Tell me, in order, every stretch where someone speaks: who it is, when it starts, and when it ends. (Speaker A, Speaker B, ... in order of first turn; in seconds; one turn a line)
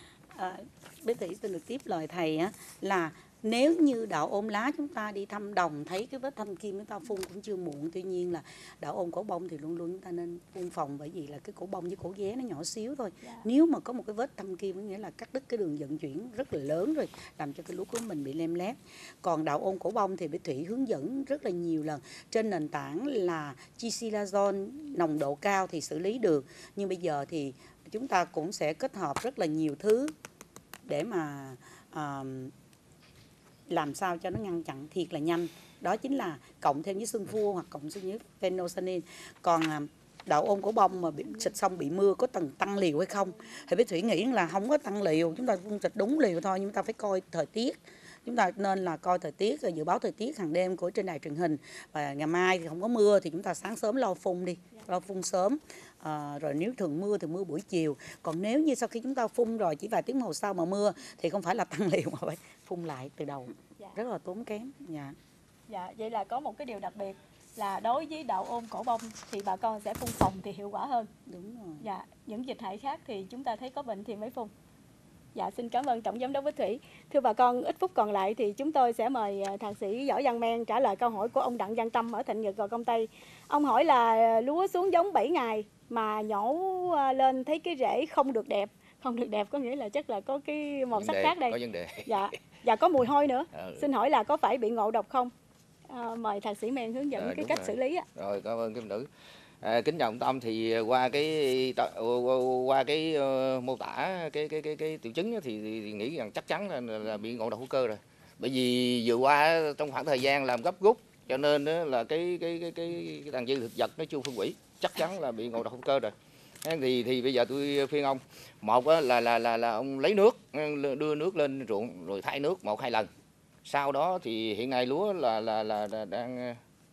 Speaker A: 0.3-30.1
Speaker A: 30.9-32.5
Speaker A: 33.7-65.2
Speaker B: 65.7-71.1
Speaker A: 71.3-71.8
Speaker B: 71.8-74.5
Speaker B: 75.3-95.3
Speaker C: 91.0-92.1
Speaker C: 93.5-93.9
Speaker B: 95.9-98.1
Speaker C: 97.2-99.1
Speaker C: 99.6-123.1
Speaker C: 123.7-126.6